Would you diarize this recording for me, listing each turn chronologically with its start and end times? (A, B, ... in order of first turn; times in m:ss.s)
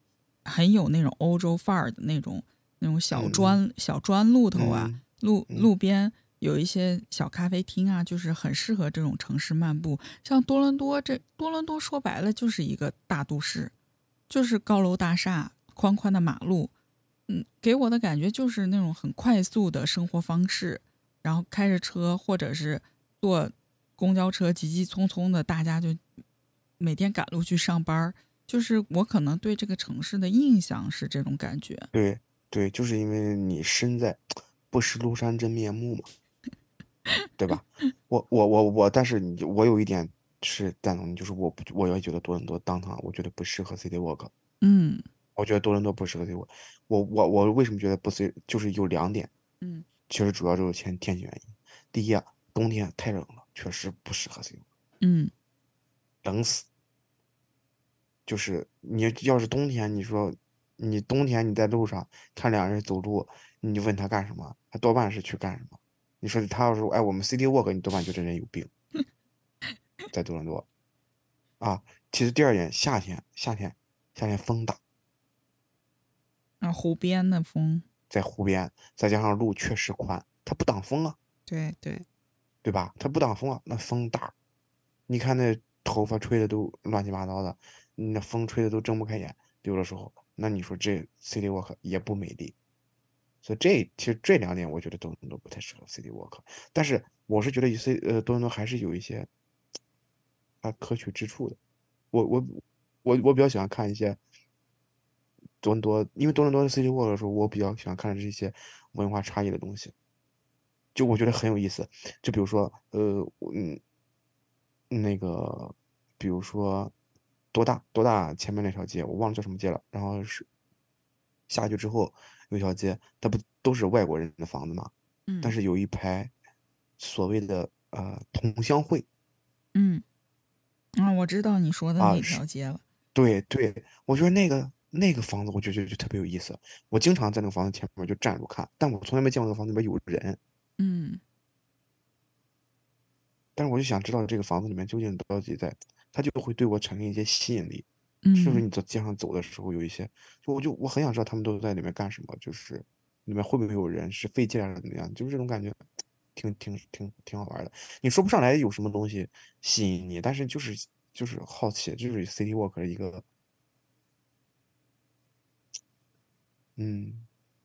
0:00.4-0:13.7 A
0:03.1-0:03.6 B
0:04.5-0:05.7 B
0:14.3-0:16.7 A
0:17.3-0:26.0 A
0:26.8-0:31.9 A
0:31.9-0:36.1 B
0:37.4-0:44.3 B
0:44.6-0:45.0 A
0:45.4-0:49.3 B
0:49.6-0:49.8 A
0:50.1-0:54.6 B
0:55.0-0:55.3 A
0:56.2-0:56.6 B
0:58.2-1:08.7 B
1:10.1-1:10.6 B
1:11.6-1:14.8 B
1:16.6-1:17.8 A
1:18.1-1:21.2 B
1:21.5-1:22.0 A
1:22.6-1:24.3 B
1:25.1-1:32.5 B
1:33.4-1:39.3 B
1:40.6-1:41.6 B
1:42.1-1:44.2 B
1:45.6-1:49.9 B
1:50.9-1:53.8 B
1:54.9-1:56.9 B
1:57.5-2:00.4 B
2:01.5-2:06.3 B
2:05.3-2:05.6 A
2:07.0-2:09.1 B
2:09.7-2:10.0 A
2:11.0-2:12.8 A
2:12.0-2:12.4 B
2:13.1-2:20.4 B
2:20.8-2:21.2 A
2:23.6-2:35.8 B
2:28.2-2:28.6 A
2:36.3-2:43.2 B
2:46.8-2:47.3 B